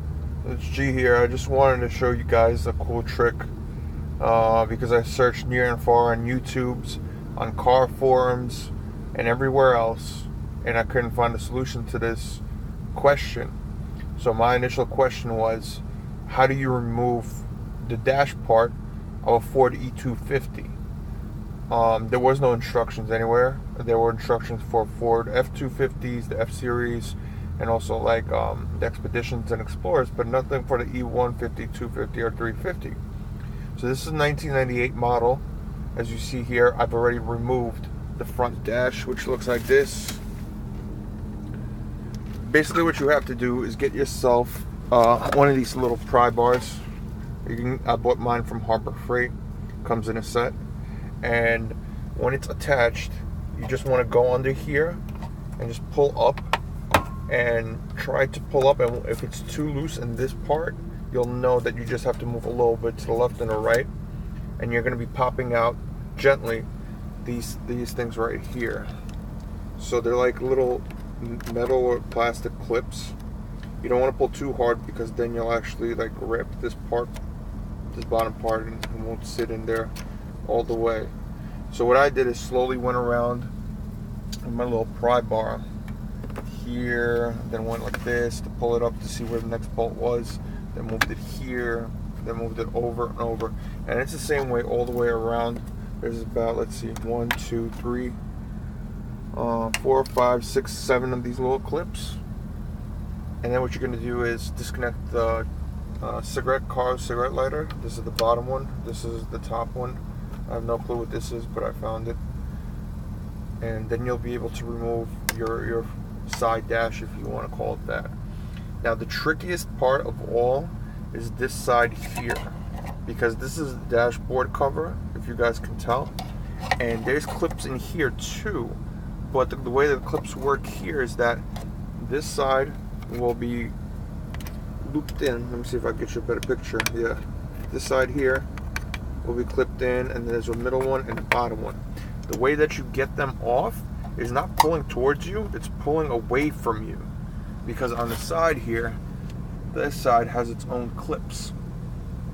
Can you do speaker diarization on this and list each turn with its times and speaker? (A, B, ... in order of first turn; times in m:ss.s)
0:00.4-0:03.5 A
0:04.2-0:12.4 A
0:12.9-0:13.6 A
0:14.2-0:20.8 A
0:21.7-0:33.0 A
0:33.8-0:35.4 A
0:36.0-0:40.2 A
0:42.4-0:46.8 A
0:47.4-0:50.6 A
0:51.2-0:55.0 A
0:55.6-0:56.5 A
0:57.3-1:03.9 A
1:04.6-1:06.7 A
1:07.2-1:08.9 A
1:09.8-1:13.2 A
1:13.8-1:17.2 A
1:17.9-1:19.9 A
1:20.4-1:21.1 A
1:21.7-1:23.5 A
1:24.4-1:25.6 A
1:26.4-1:38.2 A
1:39.3-1:42.2 A
1:43.4-1:45.5 A
1:46.0-1:52.2 A
1:53.6-1:58.2 A
1:58.8-2:06.2 A
2:06.8-2:11.4 A
2:12.0-2:13.8 A
2:14.8-2:18.5 A
2:19.2-2:27.1 A
2:27.6-2:29.0 A
2:29.7-2:31.5 A